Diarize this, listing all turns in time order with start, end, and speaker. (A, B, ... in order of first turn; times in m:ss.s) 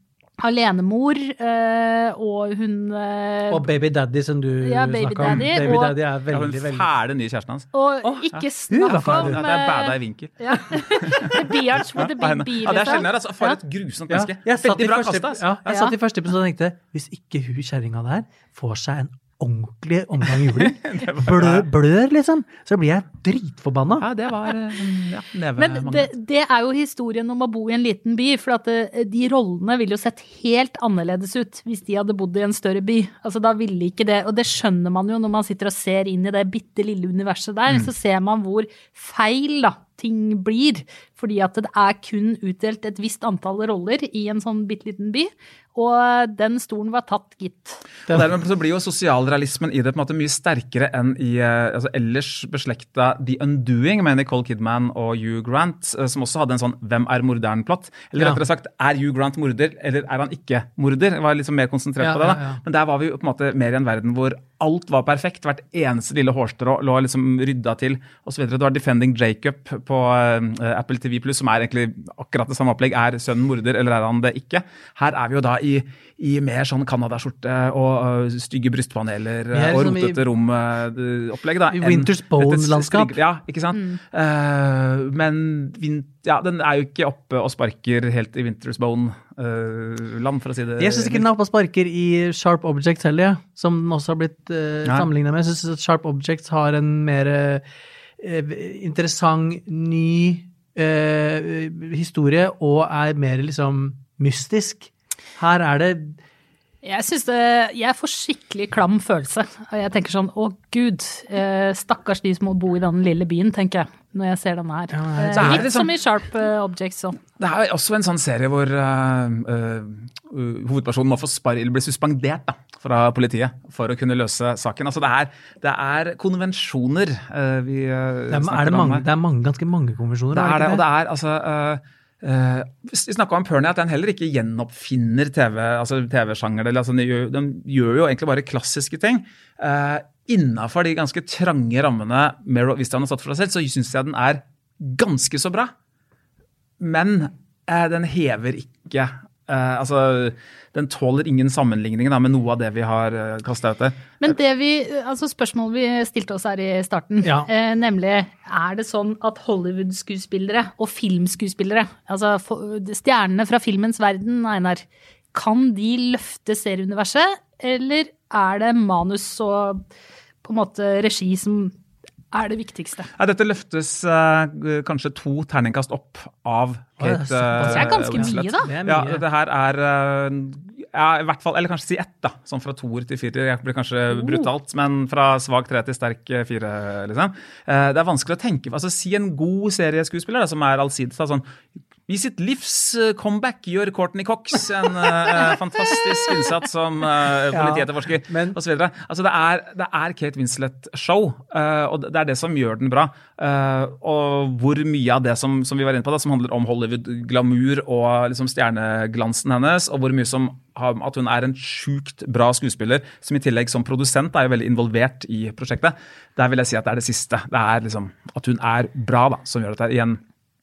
0:00.4-0:03.6 A
0:03.5-0:06.9 B
0:04.6-0:05.9 A
0:06.3-0:07.7 C
0:07.7-0:13.6 A
0:08.0-0:09.4 B
0:08.3-0:10.4 C
0:11.0-0:11.3 C
0:12.0-0:15.5 C
0:14.1-0:24.0 B
0:15.7-0:15.9 A
0:20.3-0:21.6 C
0:24.0-0:26.1 C
0:25.6-0:47.8 A
0:48.1-1:31.2 C
0:58.2-0:58.4 B
1:02.0-1:02.6 B
1:19.5-1:20.2 B
1:21.7-1:23.2 B
1:30.8-1:37.6 B
1:38.2-1:46.2 B
1:46.8-1:57.2 A
1:54.9-1:55.7 B
1:55.3-1:55.9 C
1:57.4-2:09.0 C
2:08.3-2:10.8 B
2:10.3-2:25.7 C
2:26.8-2:34.2 C
2:34.2-2:49.8 A
2:37.2-2:37.5 B
2:50.4-2:51.7 A
2:52.3-2:53.1 A
2:53.2-3:11.4 C
2:57.0-2:59.2 B
2:57.6-2:58.7 A
3:04.1-3:04.4 A
3:12.1-3:40.2 C
3:17.5-3:18.6 B